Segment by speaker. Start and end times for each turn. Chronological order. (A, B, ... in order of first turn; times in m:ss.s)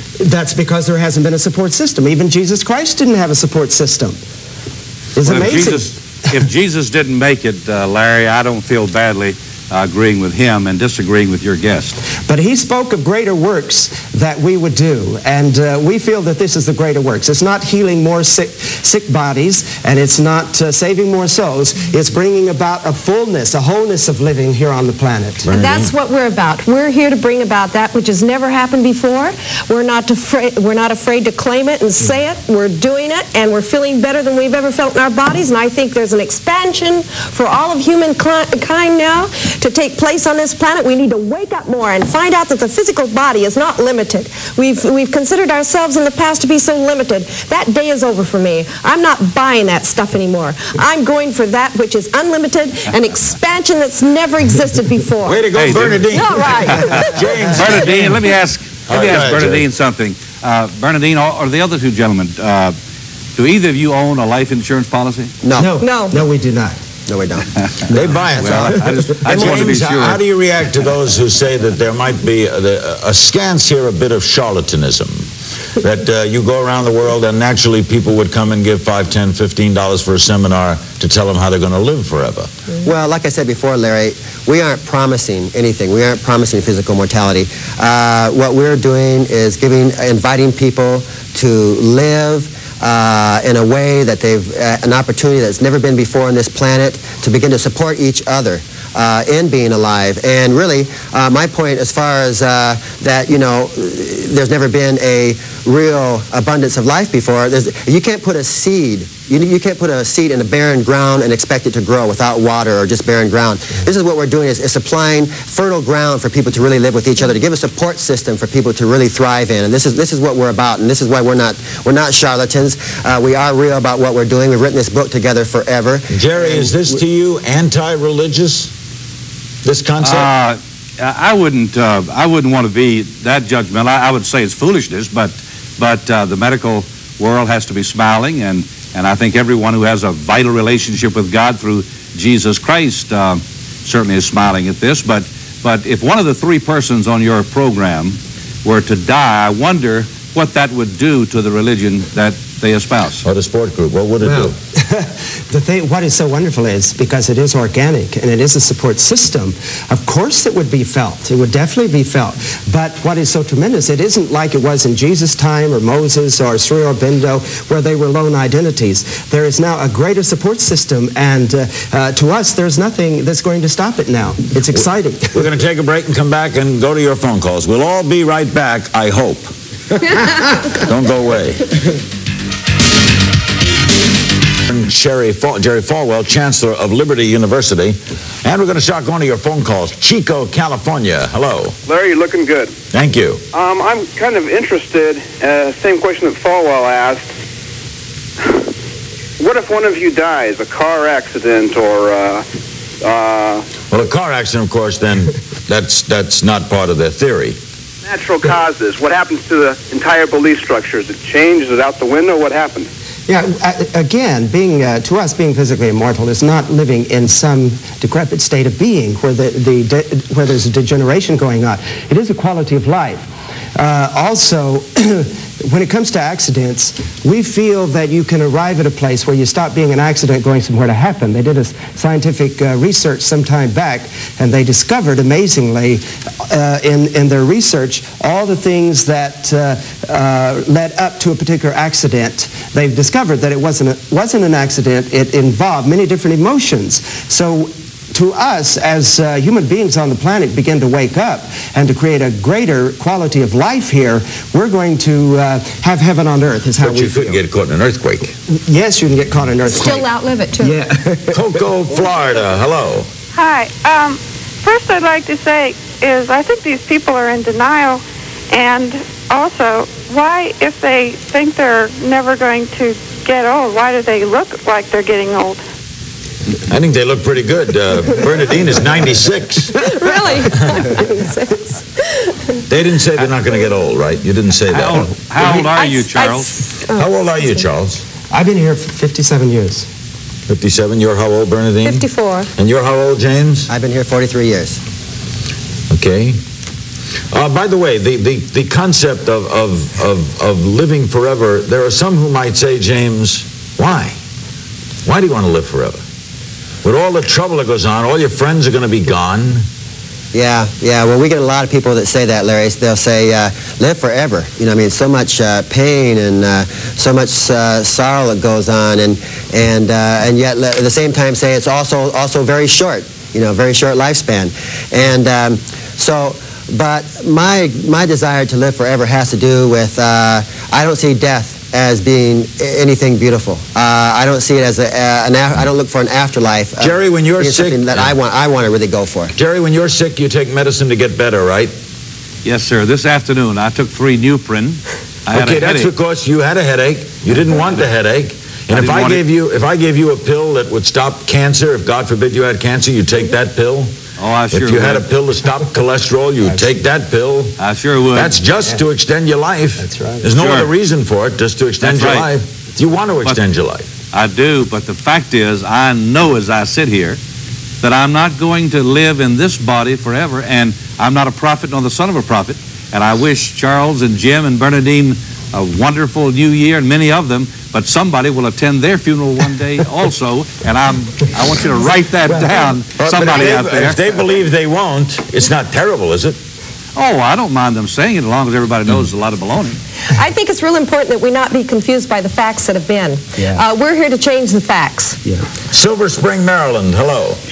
0:00.2-0:04.2 A
0:05.2-0:05.9 A
0:05.2-0:12.0 B
0:12.3-0:25.5 A
0:25.4-0:25.9 C
0:25.5-0:55.5 D
0:55.2-0:58.2 C
0:55.5-0:56.0 B
0:56.1-0:57.2 D
0:56.8-1:02.7 B
0:57.7-0:58.1 A
0:58.9-0:59.6 C
1:03.4-1:05.3 B
1:05.4-1:05.7 E
1:05.6-1:06.8 A
1:05.8-1:06.2 D
1:07.1-1:07.5 E
1:07.9-1:10.2 B
1:07.9-1:15.2 C
1:08.4-1:09.7 E
1:15.8-1:22.5 C
1:22.8-2:06.1 E
2:06.1-2:08.7 C
2:09.6-2:10.3 C
2:10.0-2:33.2 B
2:33.2-2:34.5 C
2:34.2-2:55.4 A
2:54.7-2:59.5 C
3:00.6-3:01.7 C
3:04.7-3:11.8 C
3:11.8-3:12.7 F
3:12.9-3:13.4 C
3:13.5-3:17.3 F
3:19.4-3:22.4 F
3:23.0-3:23.7 F
3:23.9-3:27.6 C
3:28.0-3:32.9 F
3:33.3-4:17.4 A
4:16.8-4:18.3 C
4:18.5-4:20.1 A
4:19.6-4:20.8 D
4:20.6-4:21.6 A
4:21.3-4:23.1 C
4:23.3-4:35.6 G
4:36.7-4:39.8 C
4:39.8-4:42.6 D
4:42.7-4:45.1 C
4:44.7-4:46.5 B
4:45.4-4:47.6 D
4:46.9-4:48.0 C
4:48.3-4:49.9 A
4:50.5-4:53.7 C
4:51.8-4:52.5 D
4:53.7-4:54.8 E
4:55.9-4:56.4 C
4:57.3-5:04.2 C
5:05.0-5:06.0 C
5:06.8-5:09.6 C
5:10.3-5:39.3 E
5:36.8-5:38.1 C
5:39.3-5:41.7 C
5:42.4-5:45.9 B
5:45.3-5:53.9 C
5:48.7-5:49.2 B
5:54.2-5:55.1 B
5:54.5-5:57.6 C
5:56.4-5:56.8 A
5:57.6-5:58.4 B
5:58.1-6:03.9 C
5:59.8-6:00.3 A
6:00.3-6:00.7 B
6:01.8-6:02.3 B
6:04.1-6:07.2 B
6:07.8-6:24.0 B
6:23.0-6:26.4 C
6:27.0-6:29.8 B
6:30.1-6:35.2 D
6:33.4-6:33.6 A
6:35.7-6:37.4 C